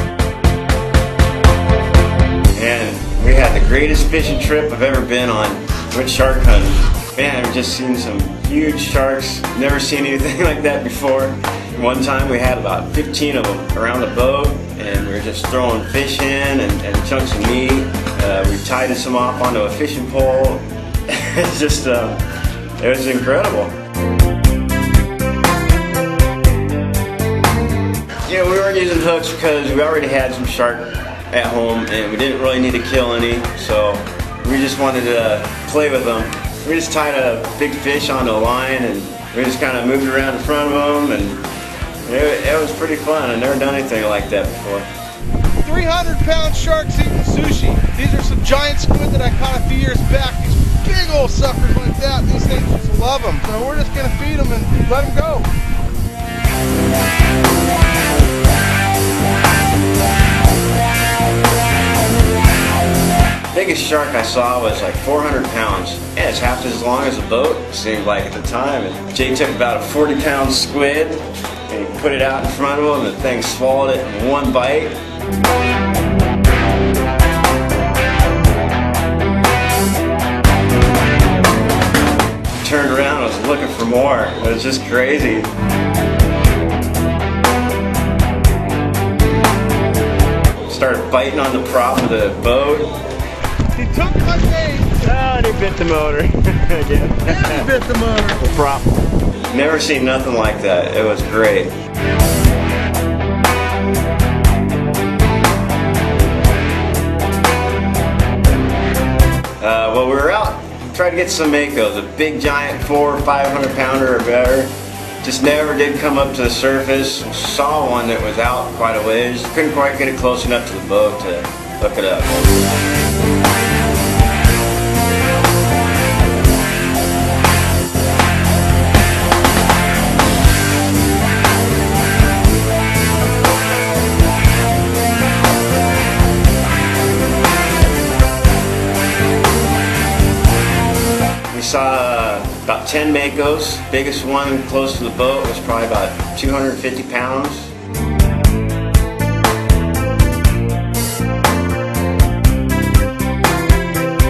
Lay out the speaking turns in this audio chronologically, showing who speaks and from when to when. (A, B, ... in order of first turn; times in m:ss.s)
0:02.6-0:22.2 A
0:22.8-0:23.8 A
0:28.2-0:41.5 A
0:42.1-0:44.9 A
0:45.6-0:55.5 B
1:03.5-1:15.0 A
1:22.6-1:25.5 A
1:30.7-1:33.0 A
1:33.8-1:35.1 B
1:35.0-1:37.8 A
1:37.3-1:38.4 B
1:38.4-1:38.9 A
1:39.5-1:41.8 A
1:49.6-2:02.4 A
2:21.5-2:27.7 A